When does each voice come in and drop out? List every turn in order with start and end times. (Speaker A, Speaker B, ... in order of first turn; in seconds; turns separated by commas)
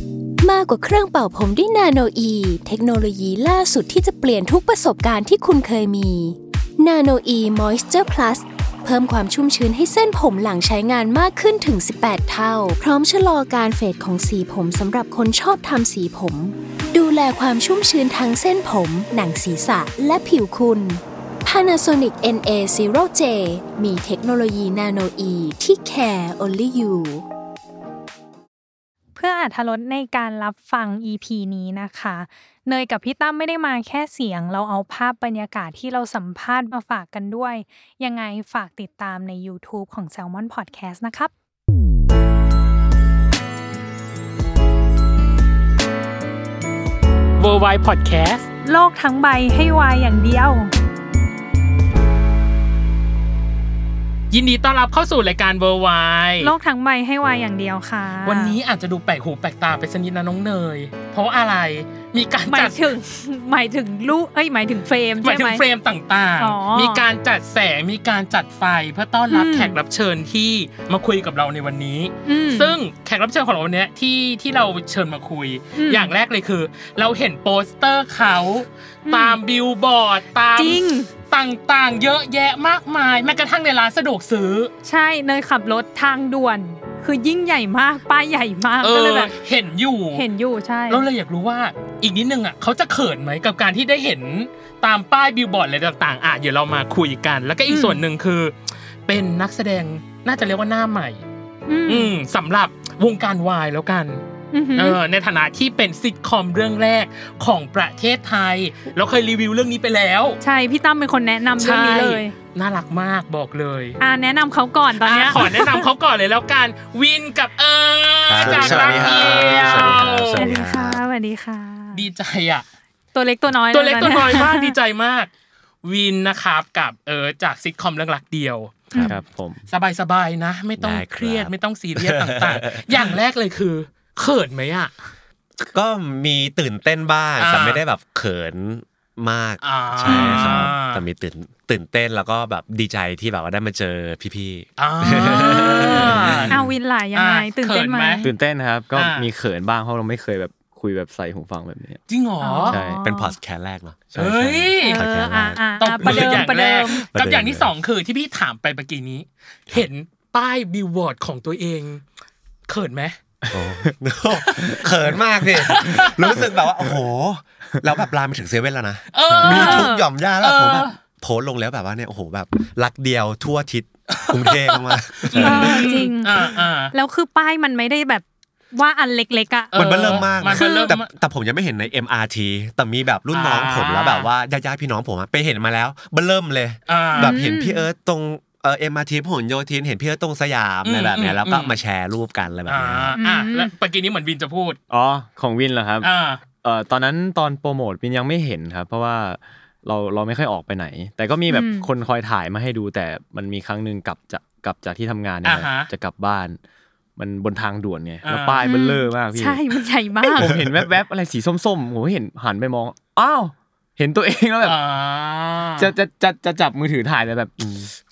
Speaker A: 0.4-27.2, Speaker B: 29.1-41.3, Speaker C: 47.4-48.5, Speaker B: 48.6-50.7, Speaker C: 54.3-56.5, Speaker B: 56.4-58.6, Speaker C: 58.2-62.8, Speaker B: 62.5-65.6, Speaker C: 65.2-84.7, Speaker B: 66.4-67.0, Speaker B: 69.3-69.8, Speaker B: 72.2-72.8, Speaker B: 75.8-76.1, Speaker B: 79.1-79.4, Speaker B: 80.5-81.1, Speaker B: 84.8-89.3, Speaker C: 88.8-90.2, Speaker B: 90.1-91.0, Speaker C: 90.9-98.5, Speaker B: 97.7-98.0, Speaker C: 99.0-101.2, Speaker B: 101.7-102.1, Speaker C: 101.9-104.2, Speaker B: 104.5-105.0, Speaker C: 104.7-110.4, Speaker B: 110.4-112.3, Speaker C: 111.6-114.0, Speaker B: 114.0-115.9, Speaker C: 115.0-120.5, Speaker D: 118.3-121.0, Speaker E: 118.4-119.1, Speaker B: 119.6-122.0, Speaker C: 121.9-122.7, Speaker B: 123.1-124.8, Speaker C: 123.7-125.3, Speaker C: 125.8-128.9, Speaker B: 128.9-129.2, Speaker E: 129.0-129.6, Speaker C: 129.7-134.9, Speaker D: 130.8-133.2, Speaker D: 135.6-146.6, Speaker C: 137.4-137.8, Speaker C: 139.6-141.0, Speaker B: 140.1-140.7, Speaker C: 144.8-146.6, Speaker B: 145.1-148.3, Speaker C: 147.1-148.2, Speaker E: 148.2-152.0, Speaker C: 148.9-149.2, Speaker C: 152.1-152.8, Speaker B: 152.4-153.3, Speaker E: 152.6-153.0, Speaker D: 153.0-156.6, Speaker E: 154.1-154.7, Speaker C: 154.1-155.1, Speaker B: 154.8-157.1, Speaker C: 155.8-162.0, Speaker D: 157.1-157.7, Speaker C: 162.7-163.2, Speaker E: 163.4-163.9, Speaker D: 163.5-176.0, Speaker C: 165.5-166.5, Speaker C: 169.1-170.9, Speaker B: 169.4-170.0, Speaker C: 174.2-176.9, Speaker B: 175.4-180.9, Speaker C: 179.7-181.1, Speaker D: 179.7-193.2, Speaker C: 183.3-184.3, Speaker C: 186.9-187.4, Speaker B: 187.1-187.8, Speaker C: 190.8-191.8, Speaker C: 192.7-194.8, Speaker B: 193.2-193.7, Speaker E: 194.9-196.1, Speaker C: 196.0-196.4, Speaker E: 196.6-206.6, Speaker B: 201.5-201.9, Speaker C: 205.4-205.9, Speaker E: 207.2-209.6, Speaker C: 208.2-208.6, Speaker B: 208.6-210.5, Speaker E: 210.3-214.8, Speaker D: 210.4-210.7, Speaker C: 214.6-215.9, Speaker E: 215.8-217.6, Speaker D: 217.6-217.9